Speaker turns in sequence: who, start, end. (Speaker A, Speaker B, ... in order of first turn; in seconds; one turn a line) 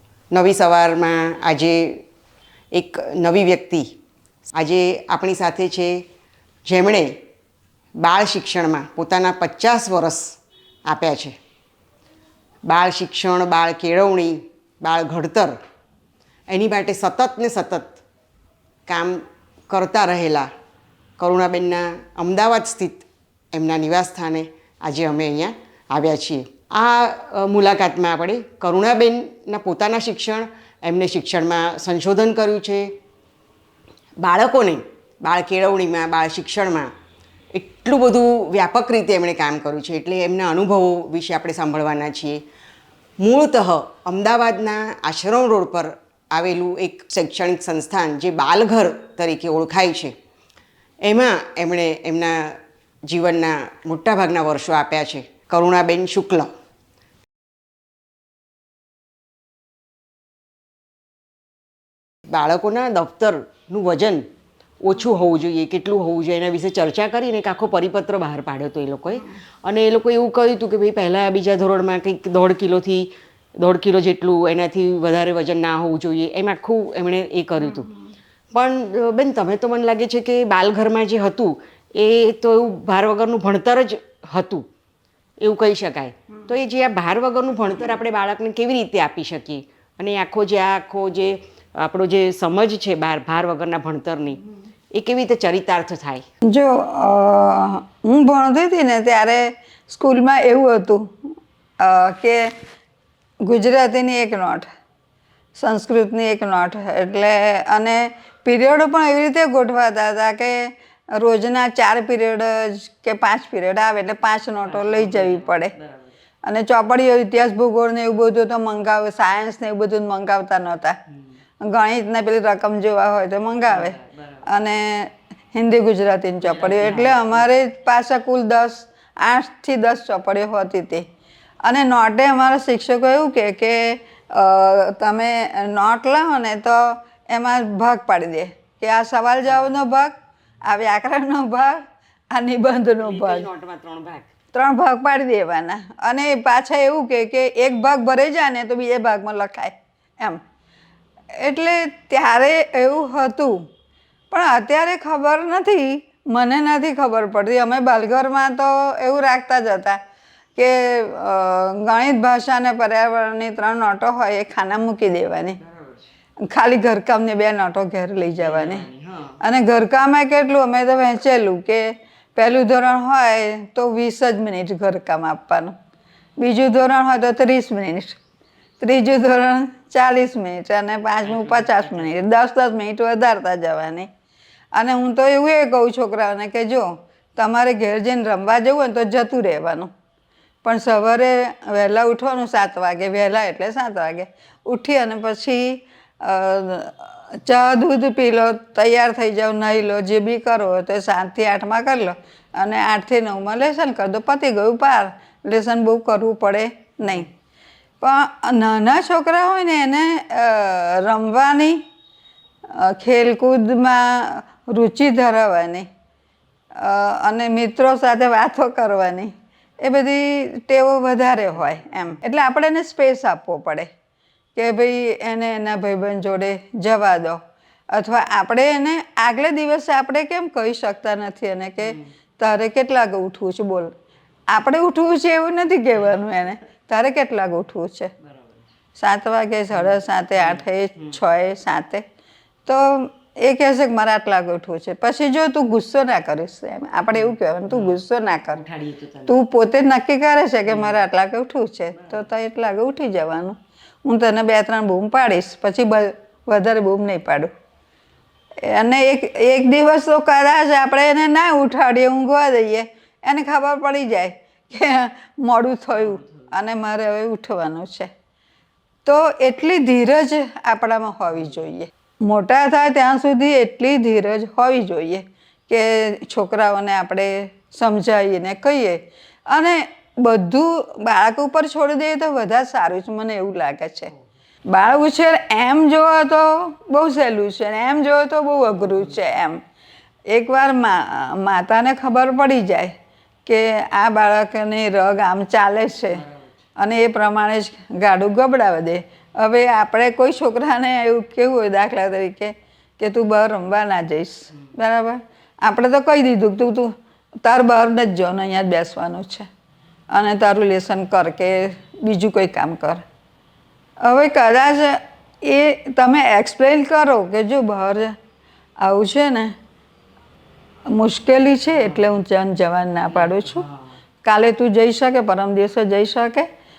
Speaker A: 0.3-2.1
Speaker A: 2.7-3.9
Speaker A: 4.5-6.0
Speaker A: 6.7-7.1
Speaker A: 8.0-11.4
Speaker A: 12.7-15.6
Speaker A: 16.5-18.0
Speaker A: 18.9-20.5
Speaker A: 21.2-32.9
Speaker A: 34.2-36.9
Speaker A: 37.6-42.4
Speaker A: 43.2-50.1
Speaker A: 51.0-56.5
Speaker A: 62.3-64.3
Speaker A: 64.8-73.1
Speaker A: 73.6-77.9
Speaker A: 78.5-84.7
Speaker A: 85.4-94.4
Speaker A: 94.9-96.2
Speaker B: 96.5-102.5
Speaker B: 103.4-104.7
Speaker B: 105.6-115.7
Speaker A: 114.7-116.1
Speaker B: 116.4-121.0
Speaker B: 121.6-131.1
Speaker A: 123.7-124.5
Speaker A: 126.4-127.5
Speaker B: 131.6-140.1
Speaker B: 140.7-143.5
Speaker A: 143.0-144.3
Speaker B: 144.5-150.4
Speaker B: 151.3-153.7
Speaker B: 154.3-160.0
Speaker B: 160.6-165.6
Speaker A: 165.6-166.0
Speaker B: 166.5-168.9
Speaker A: 168.4-169.4
Speaker B: 169.4-175.7
Speaker B: 176.4-178.2
Speaker B: 178.8-184.1
Speaker A: 181.2-182.2
Speaker B: 184.7-189.9
Speaker B: 190.6-207.3
Speaker B: 208.0-211.8
Speaker B: 212.7-215.9
Speaker B: 216.8-223.9
Speaker B: 224.6-233.9
Speaker A: 231.8-232.1
Speaker B: 234.5-238.1
Speaker A: 238.2-238.6
Speaker B: 239.0-242.1
Speaker A: 239.7-241.2
Speaker B: 242.7-248.6
Speaker A: 247.1-248.0
Speaker A: 248.5-249.4
Speaker B: 249.3-257.5
Speaker A: 250.7-251.0
Speaker B: 258.6-268.1
Speaker B: 269.1-284.1
Speaker B: 284.7-289.6
Speaker A: 288.8-289.1
Speaker B: 290.3-292.9
Speaker B: 293.4-296.2
Speaker A: 296.1-296.5
Speaker B: 296.8-309.5
Speaker B: 310.1-313.0
Speaker B: 314.0-318.2
Speaker B: 318.8-319.5
Speaker B: 320.9-323.6
Speaker A: 323.1-323.9
Speaker B: 324.2-326.5